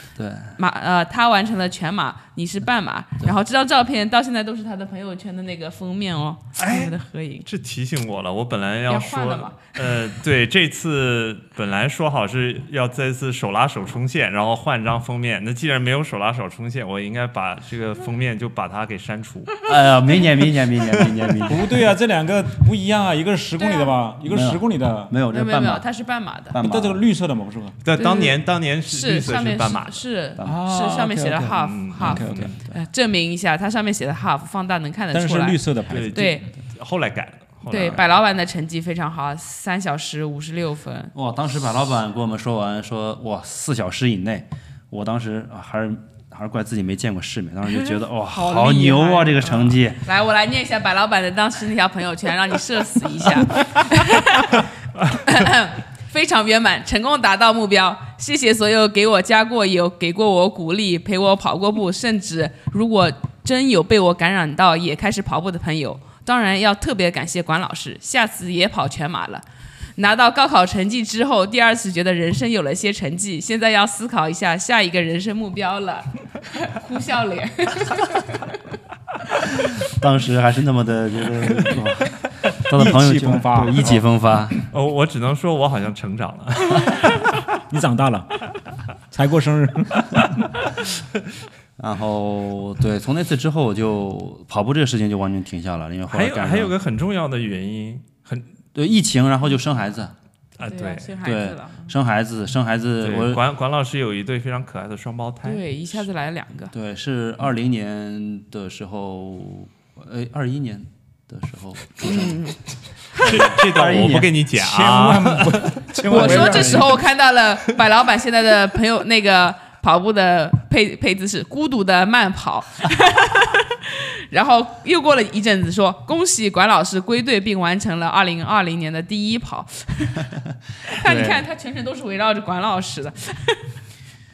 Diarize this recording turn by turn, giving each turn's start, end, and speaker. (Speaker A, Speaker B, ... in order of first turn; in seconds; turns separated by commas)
Speaker A: 0.2-0.6, Speaker B: 0.6-7.5, Speaker C: 6.6-19.6, Speaker B: 8.9-10.0, Speaker A: 19.6-21.8, Speaker D: 21.4-25.1, Speaker B: 23.6-23.9, Speaker A: 24.2-25.9, Speaker B: 25.3-26.6, Speaker A: 26.5-27.1, Speaker D: 26.6-27.8, Speaker C: 27.8-30.1, Speaker B: 27.9-35.6, Speaker A: 30.4-30.9, Speaker D: 30.4-32.5, Speaker C: 31.6-32.5, Speaker A: 32.0-32.8, Speaker D: 35.1-36.5, Speaker C: 35.9-38.1, Speaker B: 36.1-36.5, Speaker B: 37.7-41.1, Speaker A: 41.1-50.0, Speaker B: 48.3-69.5, Speaker B: 70.0-78.6, Speaker A: 79.8-84.6, Speaker D: 82.7-84.1, Speaker C: 84.7-87.4, Speaker D: 87.7-88.5, Speaker D: 89.1-90.4, Speaker A: 91.8-96.7, Speaker C: 96.1-98.5, Speaker A: 98.7-100.1, Speaker C: 100.6-101.2, Speaker B: 100.6-101.9, Speaker A: 101.2-103.4, Speaker C: 103.0-105.6, Speaker B: 105.4-106.7, Speaker A: 106.7-112.5, Speaker B: 112.0-112.6, Speaker A: 113.1-114.3, Speaker C: 113.1-116.7, Speaker D: 114.0-117.0, Speaker B: 116.1-130.3, Speaker B: 130.8-133.7, Speaker C: 131.0-131.4